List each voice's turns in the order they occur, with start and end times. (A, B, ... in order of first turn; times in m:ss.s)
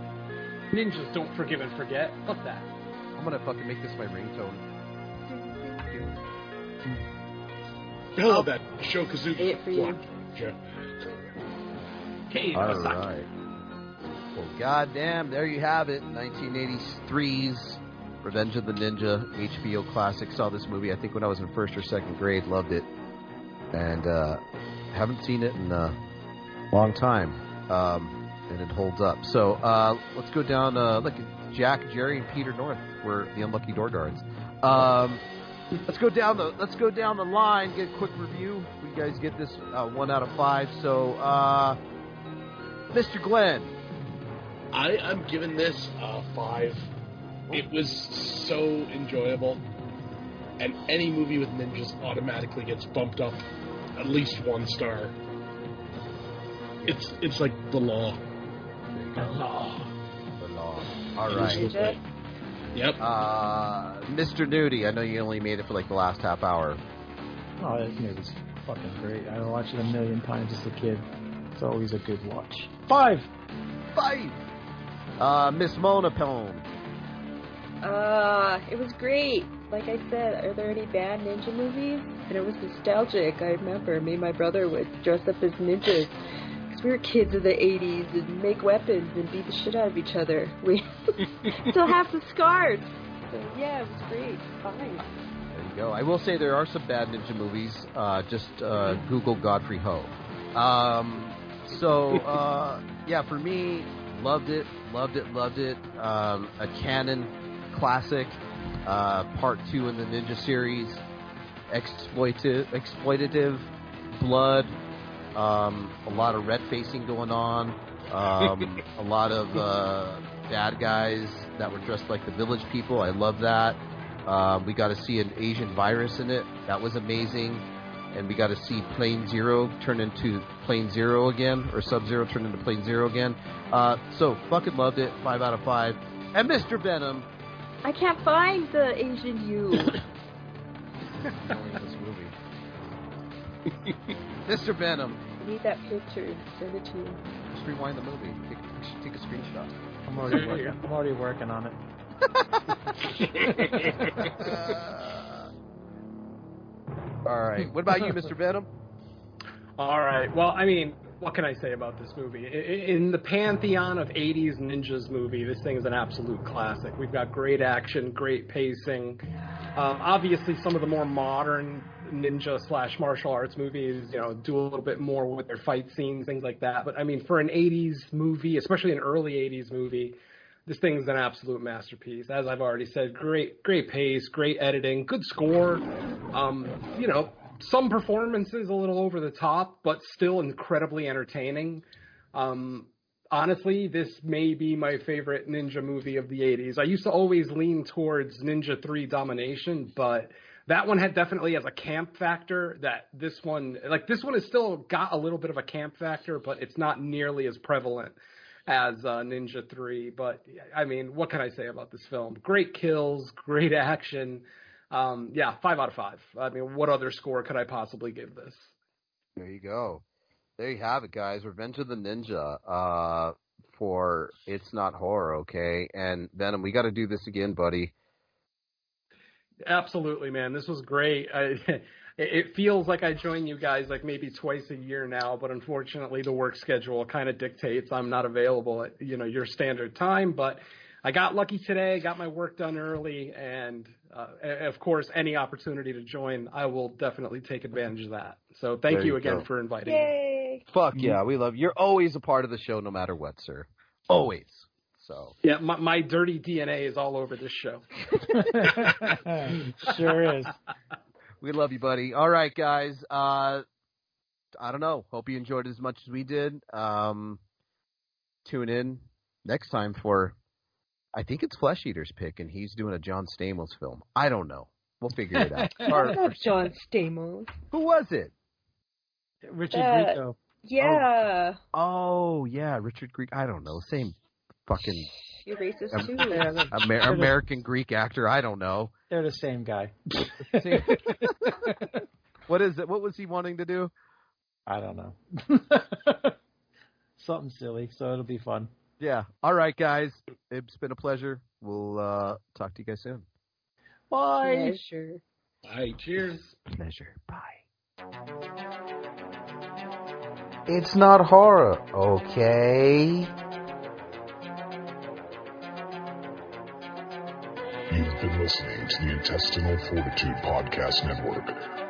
0:00.7-0:02.7 A
0:03.2-0:04.6 B
0:05.7-0:06.1 B
0:08.2-0:10.6 C
0:09.4-0:10.1 D
0:12.3-0:13.1 A
0:12.5-0:13.3 B
0:14.3-0:22.9 B
0:23.7-0:26.0 B
0:26.7-0:35.2 B
0:35.8-0:41.8 B
0:42.9-0:43.8 B
0:44.7-0:46.9 C
0:47.5-0:49.6 C
0:50.6-0:53.4 C
0:54.0-0:55.2 C
0:56.8-0:58.2 C
0:58.9-0:59.4 B
0:59.3-0:59.9 A
1:00.4-1:01.8 B
1:01.3-1:02.0 C
1:01.4-1:02.0 D
1:02.7-1:03.0 C
1:03.0-1:06.8 B
1:07.6-1:13.3 E
1:13.9-1:14.4 B
1:15.2-1:16.7 B
1:17.8-1:35.1 D
1:35.5-1:51.0 B
1:51.7-1:54.8 B
1:55.4-2:17.3 B
1:58.4-1:58.8 C
2:17.8-2:20.0 D
2:21.3-2:22.4 B
2:24.4-2:25.2 B
2:25.4-2:27.2 D
2:27.5-2:29.7 B
2:30.1-2:31.8 E
2:30.2-2:30.8 A
2:32.7-2:33.5 B
2:33.4-2:34.1 C
2:34.2-2:35.5 B
2:37.2-2:38.7 B
2:39.8-2:49.2 A
2:49.8-3:38.8 A
3:39.4-3:40.0 B
3:40.6-3:47.9 B
3:49.7-4:10.1 A
4:08.9-4:09.5 B
4:09.8-4:10.6 D
4:10.7-4:15.4 B
4:15.4-4:17.8 A
4:18.3-4:20.6 E
4:21.4-4:23.6 B
4:24.5-4:27.4 B
4:28.4-4:30.4 B
4:31.1-4:36.4 B
4:35.4-4:36.2 E
4:35.8-4:37.6 D
4:37.7-4:38.3 B
4:39.4-4:41.0 E
4:39.7-4:41.6 D
4:41.7-4:45.1 B
4:45.3-4:46.6 D
4:45.9-4:46.2 B
4:46.3-4:47.4 E
4:46.7-4:48.9 B
4:49.1-4:51.8 E
4:50.5-4:51.7 B
4:52.5-4:53.9 B
4:54.7-4:56.3 E
4:57.2-4:58.7 E
4:59.0-5:03.3 B
5:04.1-5:04.8 E
5:04.4-5:05.2 D
5:05.6-5:06.4 C
5:06.0-5:06.6 A
5:06.7-5:07.6 B
5:10.7-5:13.3 B
5:17.9-5:21.6 F